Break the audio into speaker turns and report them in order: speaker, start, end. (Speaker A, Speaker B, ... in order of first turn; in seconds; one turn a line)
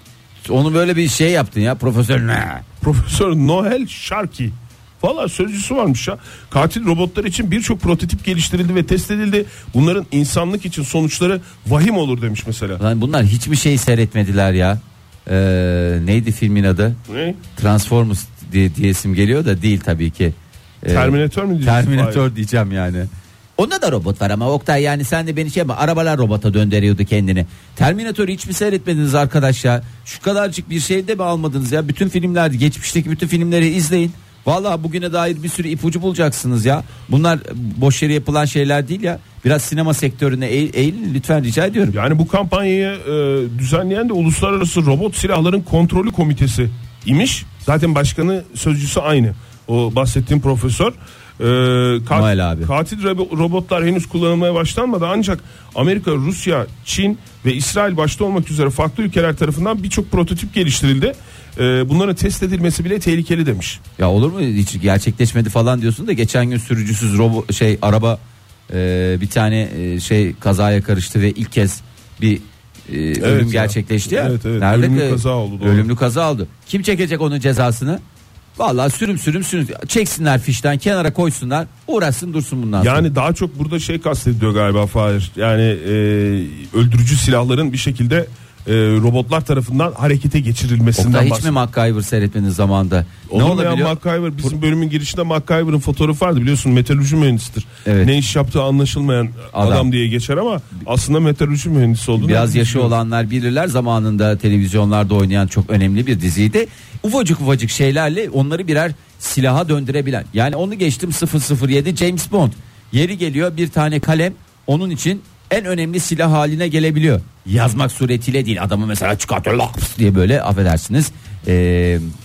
Speaker A: 0.4-2.6
Speaker B: 2.8-12.8
Speaker A: 12.8-17.0
Speaker B: 17.1-17.4
Speaker A: 17.5-41.9
Speaker B: 20.9-22.2
Speaker B: 41.9-63.8
Speaker A: 52.1-52.7
Speaker A: 64.0-78.0
Speaker B: 73.2-75.9
Speaker A: 78.6-83.0
Speaker B: 82.8-91.5
Speaker A: 91.0-94.0
Speaker B: 93.3-102.9
Speaker A: 97.8-98.1
Speaker A: 99.5-99.9
Speaker A: 102.2-122.1